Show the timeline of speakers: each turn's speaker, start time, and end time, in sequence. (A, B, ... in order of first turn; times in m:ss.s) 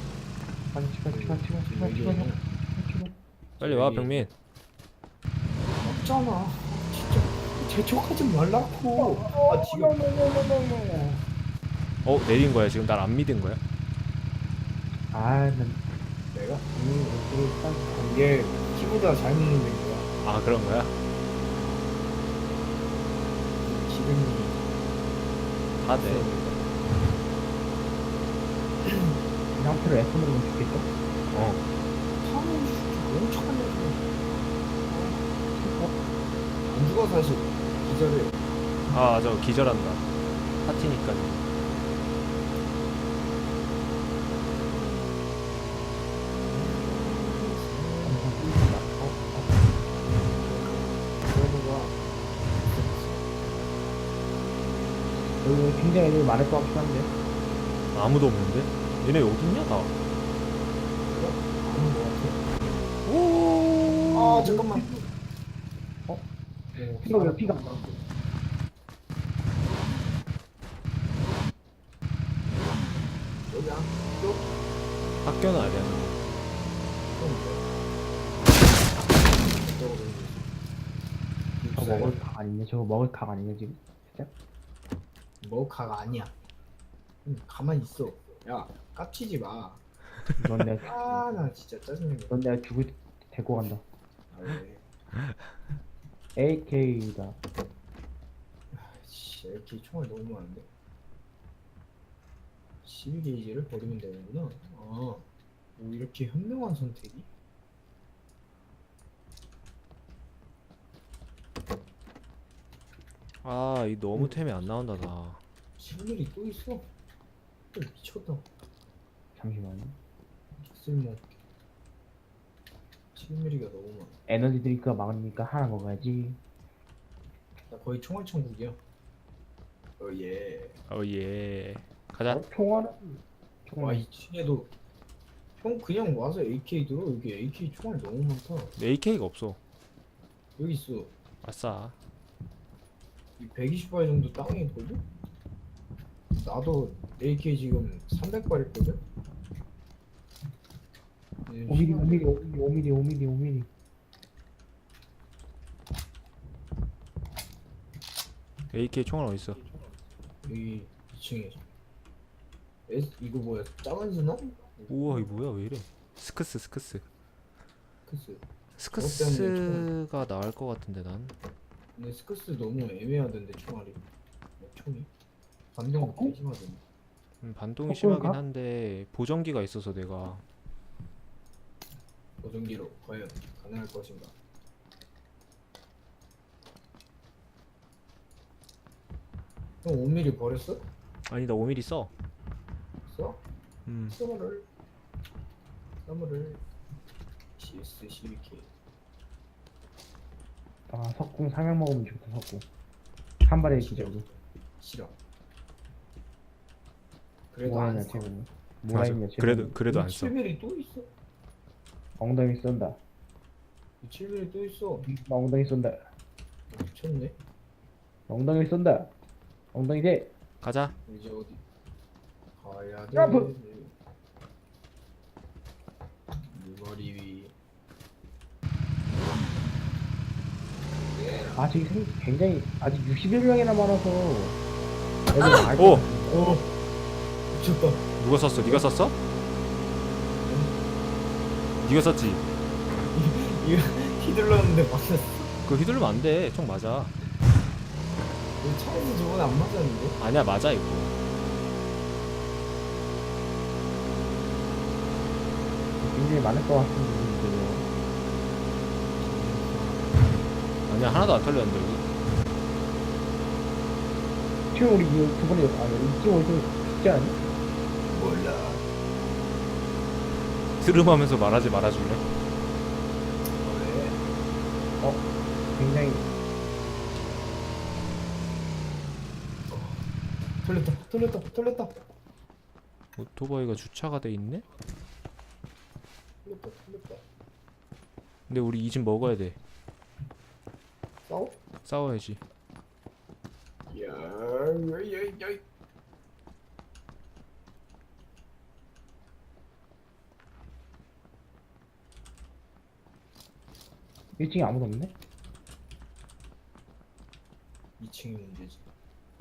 0:00.7-0:03.1 A
0:01.1-0:02.4 B
0:03.6-0:04.3 B
0:03.6-0:04.3 C
0:05.8-0:10.0 B
0:09.0-0:11.2 A
0:12.0-0:13.6 C
0:15.1-0:15.8 A
0:16.3-0:16.7 B
0:16.7-0:18.2 A
0:17.9-0:20.1 B
0:20.2-0:20.9 C
0:23.6-0:24.6 B
0:25.8-0:26.3 C
0:26.0-0:26.7 B
0:28.8-0:29.2 B
0:29.5-0:30.9 A
0:31.3-0:31.6 C
0:32.2-0:34.2 B
0:34.9-0:35.3 B
0:35.6-0:35.9 A
0:36.7-0:38.4 B
0:38.9-0:40.0 C
0:40.6-0:41.4 C
0:46.5-0:46.9 A
0:46.7-0:48.4 B
0:48.0-0:49.6 A
0:50.2-0:52.0 B
0:52.6-0:53.3 B
0:55.4-0:57.1 A
0:57.9-0:59.9 C
1:01.1-1:02.4 B
1:03.1-1:04.4 C
1:04.1-1:05.1 B
1:04.4-1:04.9 A
1:06.8-1:08.0 B
1:07.0-1:07.8 A
1:13.5-1:14.5 B
1:15.2-1:16.2 C
1:17.2-1:17.7 B
1:19.4-1:20.5 B
1:21.6-1:22.2 B
1:21.7-1:24.3 A
1:25.4-1:26.3 B
1:27.2-1:29.8 B
1:30.4-1:31.3 A
1:30.8-1:32.3 B
1:32.3-1:33.8 A
1:34.3-1:34.8 B
1:36.3-1:37.4 A
1:38.7-1:40.7 B
1:42.8-1:45.3 B
1:45.8-1:47.3 B
1:53.4-1:55.4 C
1:55.8-1:56.9 B
1:57.7-1:58.4 B
1:59.4-2:00.0 A
2:00.6-2:01.3 B
2:03.2-2:04.2 B
2:04.3-2:06.4 A
2:07.7-2:08.8 B
2:10.0-2:10.8 B
2:10.9-2:12.4 C
2:12.3-2:14.0 A
2:13.8-2:14.7 B
2:15.6-2:18.8 B
2:18.8-2:19.6 C
2:20.6-2:21.1 B
2:21.4-2:21.9 C
2:23.4-2:25.0 B
2:26.3-2:29.0 B
2:31.5-2:32.3 B
2:31.7-2:33.7 A
2:38.7-2:39.6 C
2:40.4-2:41.7 B
2:42.9-2:45.4 B
2:44.9-2:47.0 C
2:48.1-2:49.9 B
2:48.8-2:51.3 C
2:52.0-2:54.0 B
2:54.6-2:55.1 B
2:55.7-2:56.8 B
2:55.9-2:56.3 A
2:57.4-3:00.4 C
2:57.9-2:58.4 A
3:02.4-3:04.3 B
3:09.8-3:10.9 B
3:11.3-3:12.1 C
3:13.1-3:13.4 B
3:13.8-3:14.2 C
3:14.1-3:14.7 B
3:16.0-3:16.6 B
3:17.6-3:18.7 B
3:20.9-3:22.7 A
3:23.5-3:24.2 A
3:23.6-3:25.2 B
3:27.5-3:28.3 B
3:27.6-3:29.8 A
3:28.9-3:30.3 C
3:29.9-3:31.1 B
3:32.2-3:33.0 A
3:34.0-3:35.1 B
3:35.0-3:36.0 A
3:36.7-3:37.4 B
3:38.3-3:39.1 A
3:39.7-3:40.3 A
3:40.6-3:40.9 C
3:41.1-3:41.6 B
3:42.6-3:43.9 B
3:43.2-3:43.5 A
3:46.5-3:47.5 B
3:51.0-3:51.7 B
3:51.6-3:54.6 A
3:55.3-3:56.4 A
3:55.8-3:56.1 C
3:56.2-3:56.8 B
3:57.5-3:58.1 B
3:58.2-3:59.2 C
4:00.4-4:00.8 B
4:01.8-4:02.4 C
4:03.1-4:05.5 B
4:05.6-4:07.1 C
4:08.6-4:10.2 B
4:10.2-4:11.1 C
4:16.0-4:17.8 A
4:19.2-4:20.2 B
4:20.9-4:22.0 C
4:24.7-4:27.4 A
4:28.1-4:28.9 B
4:30.8-4:32.2 C
4:33.6-4:34.2 B
4:35.0-4:36.3 A
4:39.7-4:40.0 B
4:40.6-4:41.9 B
4:43.2-4:44.6 C
4:46.4-4:47.2 B
4:48.5-4:49.6 C
4:51.3-4:51.6 B
4:51.8-4:52.4 C
4:53.9-4:55.6 B
5:04.4-5:05.1 A
5:08.0-5:08.8 B